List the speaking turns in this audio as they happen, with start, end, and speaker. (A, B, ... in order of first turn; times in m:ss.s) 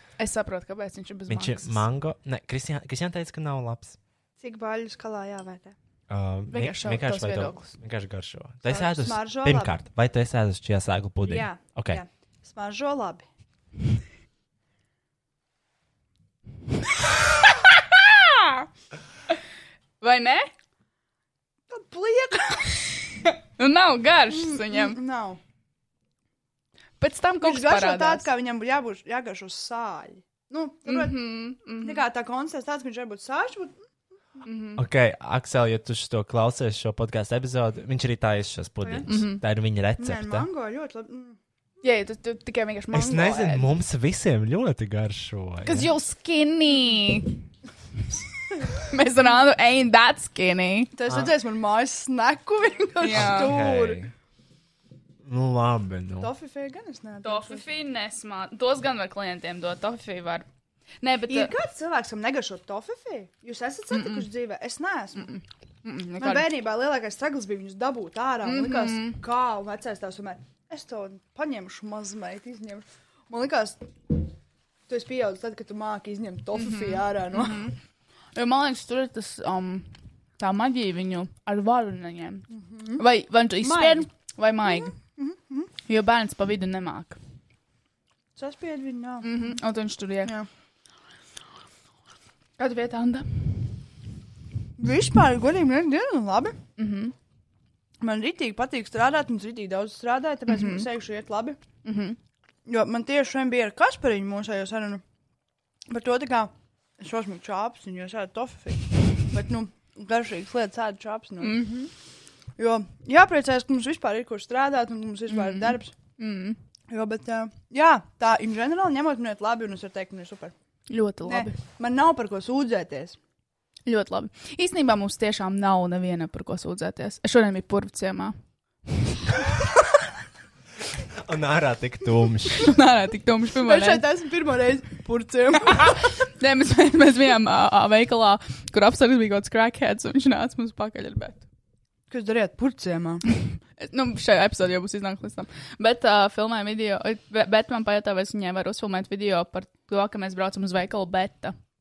0:00.2-0:01.8 A
0:01.3-0:04.0 B
0:04.4-0:05.8 C
0:06.1-0:12.0 B
0:06.5-0:07.7 A
0:08.7-0:09.8 C
0:11.2-0:13.3 C
0:17.6-0:18.6 A
0:20.0-0:20.5 A
0:21.7-0:22.8 C
0:23.2-0:25.0 A
0:24.3-0:25.4 C
0:27.0-0:28.3 A
0:27.4-0:33.8 C
0:30.8-0:32.0 A
0:34.4-0:34.8 A
0:34.8-0:40.5 B
0:38.8-0:39.1 C
0:39.1-0:39.4 A
0:40.0-0:41.4 C
0:41.8-0:43.7 A
0:42.9-0:45.9 B
0:45.6-0:47.4 A
0:48.7-0:50.9 A
0:50.9-0:54.0 C
0:53.0-0:53.6 A
0:53.1-0:54.1 B
0:55.2-0:56.3 B
0:56.2-0:57.6 C
0:57.2-1:00.5 A
1:01.0-1:01.5 A
1:01.3-1:05.4 C
1:03.9-1:04.3 A
1:05.2-1:06.5 A
1:06.2-1:13.9 C
1:08.4-1:09.2 A
1:14.9-1:17.7 C
1:16.5-1:17.8 A
1:18.4-1:25.0 A
1:22.5-1:23.0 C
1:23.6-1:24.1 C
1:24.7-1:25.7 C
1:25.9-1:27.2 A
1:28.4-1:29.4 C
1:29.2-1:30.3 A
1:32.6-1:33.7 A
1:34.8-1:36.6 C
1:36.8-1:37.1 A
1:38.0-1:41.6 C
1:40.5-1:40.9 A
1:41.8-1:42.2 A
1:42.7-1:45.0 C
1:45.9-1:51.6 C
1:51.4-1:51.9 A
1:52.6-1:55.9 C
1:55.3-1:56.6 A
1:56.9-2:00.5 C
2:00.9-2:01.6 A
2:01.3-2:03.2 C
2:03.9-2:08.4 A
2:11.2-2:12.7 B
2:12.6-2:14.1 A
2:13.6-2:16.0 C
2:15.7-2:21.4 A
2:22.1-2:23.2 C
2:23.8-2:31.5 A